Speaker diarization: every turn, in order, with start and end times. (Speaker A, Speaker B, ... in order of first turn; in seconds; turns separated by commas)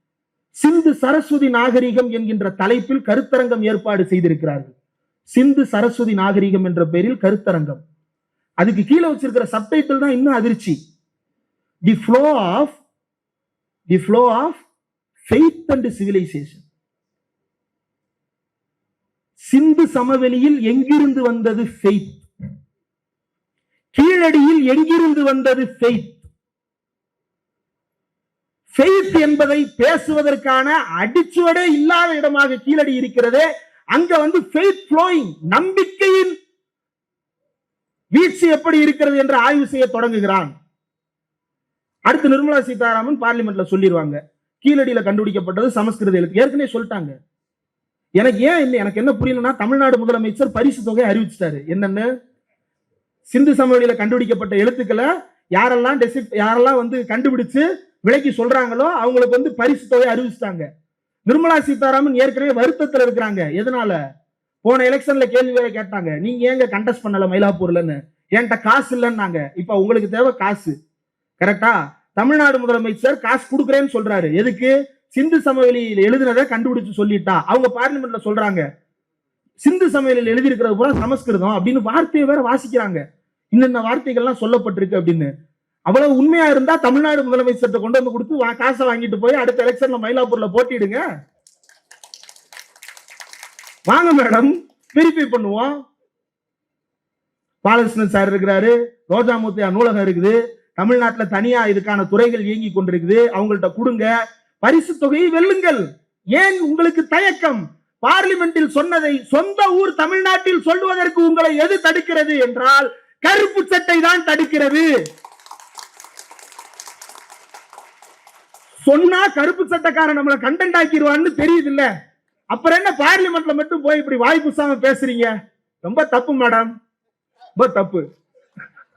Speaker A: 0.6-4.7, Speaker A: 5.3-7.8, Speaker A: 8.6-10.8, Speaker A: 11.9-12.8, Speaker A: 13.9-14.6, Speaker A: 15.2-16.6, Speaker A: 19.5-22.2, Speaker A: 23.9-26.2, Speaker A: 28.7-36.4, Speaker A: 38.1-40.5, Speaker A: 42.1-47.1, Speaker A: 48.2-52.1, Speaker A: 53.3-60.7, Speaker A: 61.3-64.0, Speaker A: 64.6-70.8, Speaker A: 71.4-78.6, Speaker A: 79.6-83.0, Speaker A: 83.5-85.3, Speaker A: 85.9-91.0, Speaker A: 93.9-95.7, Speaker A: 97.7-104.1, Speaker A: 104.6-105.8, Speaker A: 106.4-114.9, Speaker A: 118.9-121.9, Speaker A: 122.5-125.3, Speaker A: 125.8-126.7, Speaker A: 127.6-128.0